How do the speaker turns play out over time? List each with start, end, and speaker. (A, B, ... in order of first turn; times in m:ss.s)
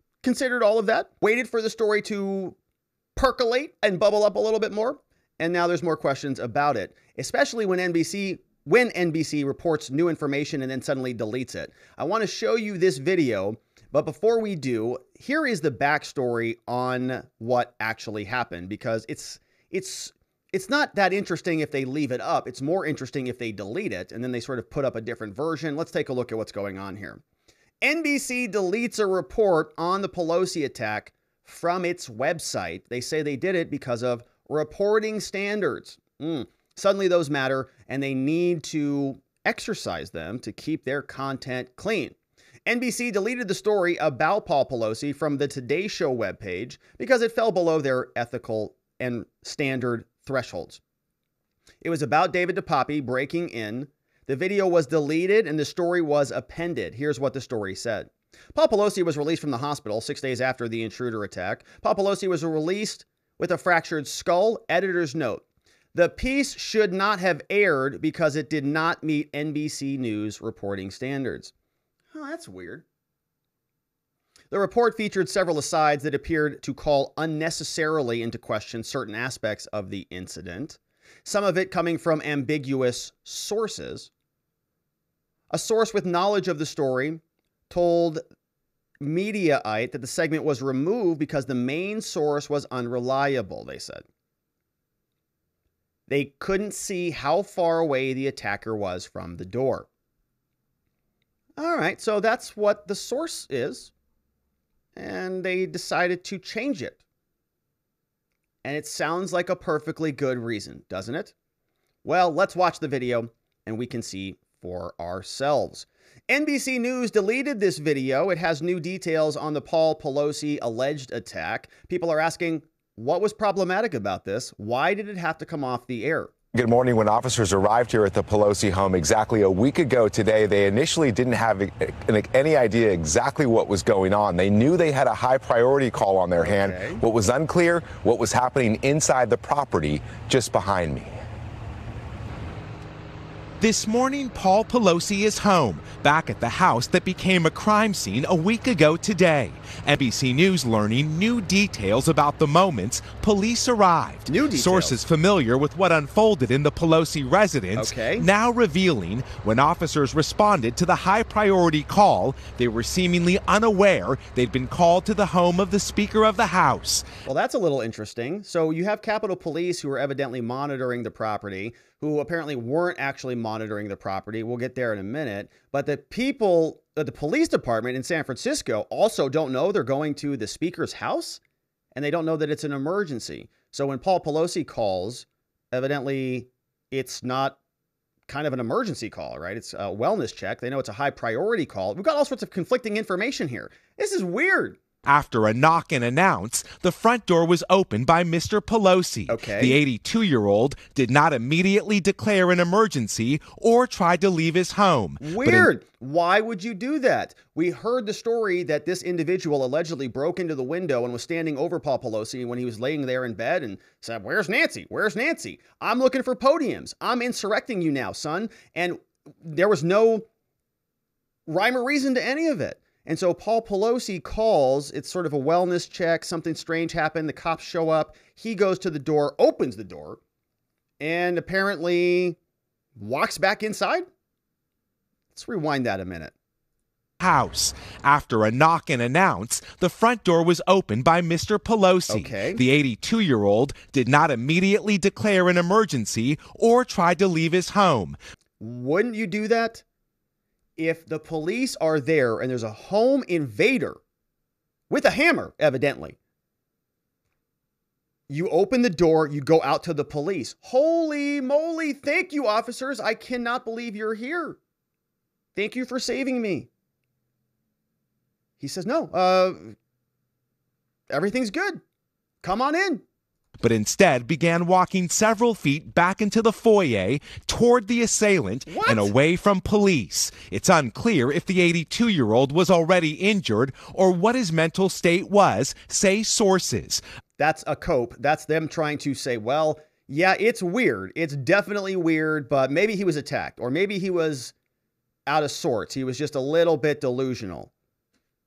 0:00.2-0:02.6 A
0:03.2-0:27.2 A
0:27.8-0:42.1 A
0:42.6-0:50.8 A
0:51.8-1:05.4 A
1:05.9-1:11.5 A
1:12.1-1:12.8 A
1:14.5-1:24.1 A
1:25.5-1:28.2 A
1:29.0-1:34.0 A
1:36.1-1:39.9 A
1:41.6-1:43.9 A
1:45.0-1:47.0 A
1:48.6-1:51.3 A
1:52.0-2:06.3 A
2:06.5-2:21.1 B
2:16.4-2:17.0 A
2:23.6-2:47.1 C
2:34.3-2:35.0 A
2:37.8-2:38.3 A
2:47.2-3:01.4 A
3:01.9-3:07.6 A
3:08.3-3:14.8 A
3:15.0-3:25.7 C
3:19.3-3:19.8 A
3:25.2-3:40.2 A
3:41.5-3:50.2 A
3:51.0-3:52.4 A
3:53.0-3:54.0 A
3:55.3-3:56.3 A
3:57.2-4:08.2 C
4:02.1-4:02.6 A
4:08.6-4:09.8 A
4:10.8-4:14.0 A
4:14.9-4:16.2 A
4:18.3-4:24.6 A
4:25.5-4:26.7 A
4:28.6-4:29.7 A
4:31.1-4:31.8 A
4:32.4-4:33.0 A
4:33.6-4:47.0 C
4:38.7-4:39.1 A
4:47.4-4:54.5 A
4:55.3-4:57.7 A